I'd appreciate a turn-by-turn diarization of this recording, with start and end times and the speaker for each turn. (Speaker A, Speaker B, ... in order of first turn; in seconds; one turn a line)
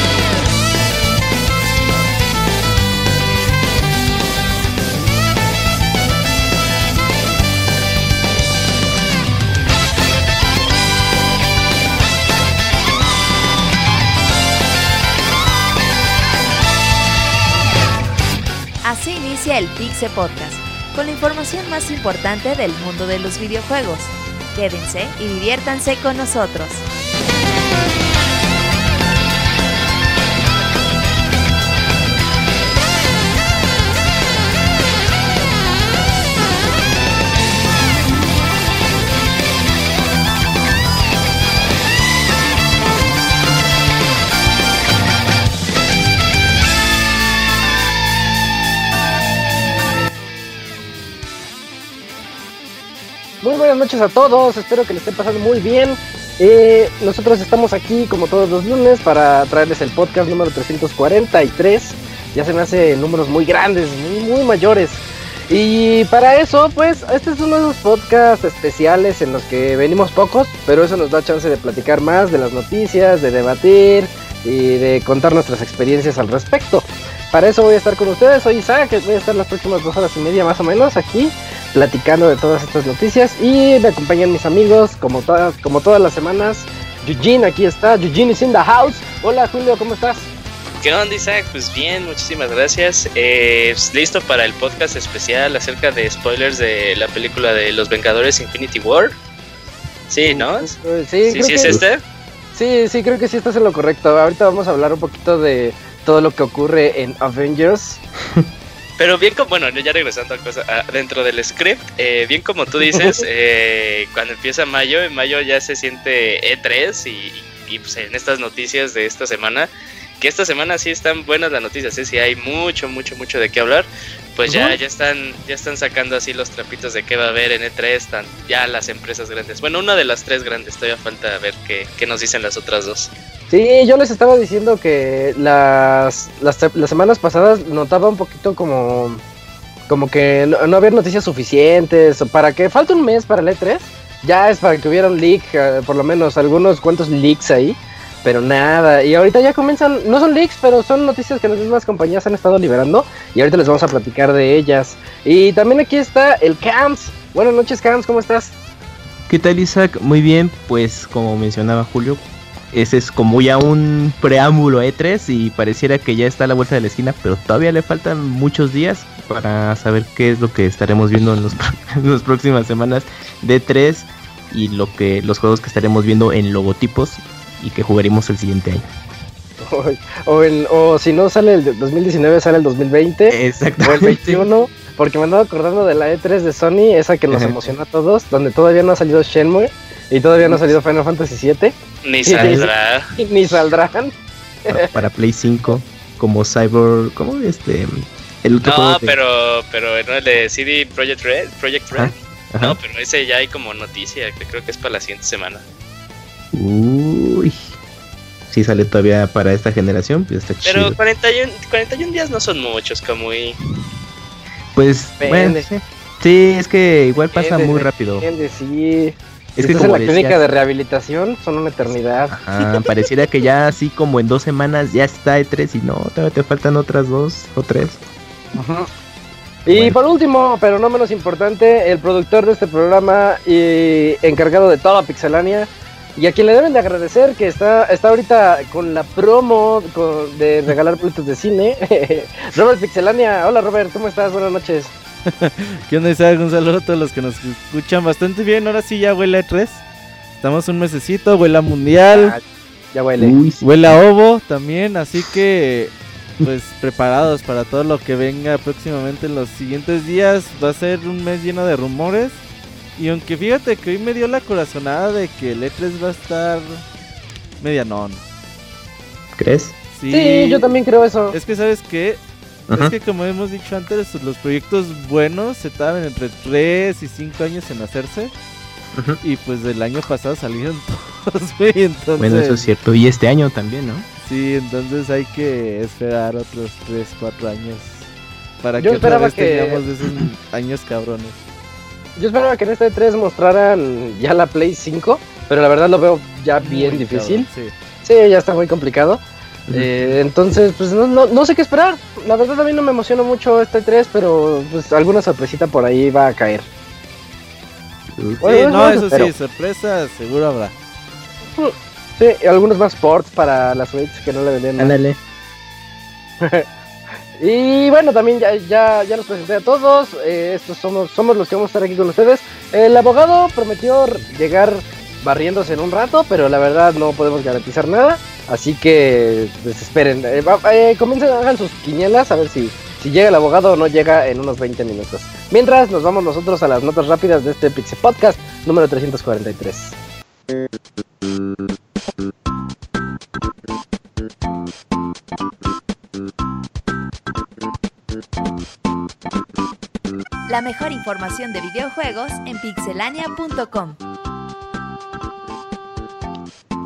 Speaker A: 18.8-26.8
Speaker B: 53.4-90.3
Speaker C: 90.8-99.2
Speaker C: 100.1-100.7
Speaker B: 100.2-101.8
Speaker C: 101.2-102.0
Speaker B: 102.5-108.0
Speaker C: 109.0-119.7
Speaker B: 112.9-113.2
Speaker C: 120.2-133.1
Speaker B: 124.5-124.8
Speaker B: 133.5-139.2
Speaker B: 139.9-158.5
Speaker D: 159.3-178.9
Speaker B: 179.6-191.7
Speaker D: 183.3-184.5
Speaker D: 187.3-187.6
Speaker D: 190.4-190.8
Speaker C: 192.0-193.1
Speaker B: 192.2-194.1
Speaker D: 192.3-192.7
Speaker B: 194.7-195.0
Speaker D: 194.7-199.2
Speaker C: 198.6-205.6
Speaker D: 201.9-202.8
Speaker D: 206.5-207.6
Speaker D: 208.5-210.9
Speaker C: 210.6-213.6
Speaker D: 214.7-218.2
Speaker B: 215.2-215.7
Speaker B: 217.3-222.3
Speaker D: 219.6-220.4
Speaker D: 222.3-228.0
Speaker B: 228.5-228.9
Speaker B: 229.7-244.9
Speaker D: 229.7-230.0
Speaker E: 245.3-249.8
Speaker E: 250.4-252.3
Speaker B: 252.1-253.3
Speaker D: 253.2-253.6
Speaker E: 253.6-262.4
Speaker E: 262.9-266.8
Speaker E: 267.6-268.2
Speaker D: 269.3-269.7
Speaker E: 269.9-270.7
Speaker B: 270.1-271.4
Speaker E: 271.3-278.3
Speaker D: 272.7-272.9
Speaker D: 278.9-279.2
Speaker E: 279.2-282.7
Speaker D: 282.2-284.1
Speaker E: 284.2-288.1
Speaker E: 288.6-291.4
Speaker B: 288.8-289.8
Speaker B: 292.2-297.5
Speaker E: 296.6-297.7
Speaker B: 298.0-306.6
Speaker D: 299.7-300.1
Speaker D: 308.2-309.3
Speaker B: 308.4-309.2
Speaker E: 308.4-310.7
Speaker B: 311.6-314.9
Speaker D: 314.8-315.2
Speaker B: 316.4-316.6
Speaker B: 317.4-339.9
Speaker A: 350.5-354.0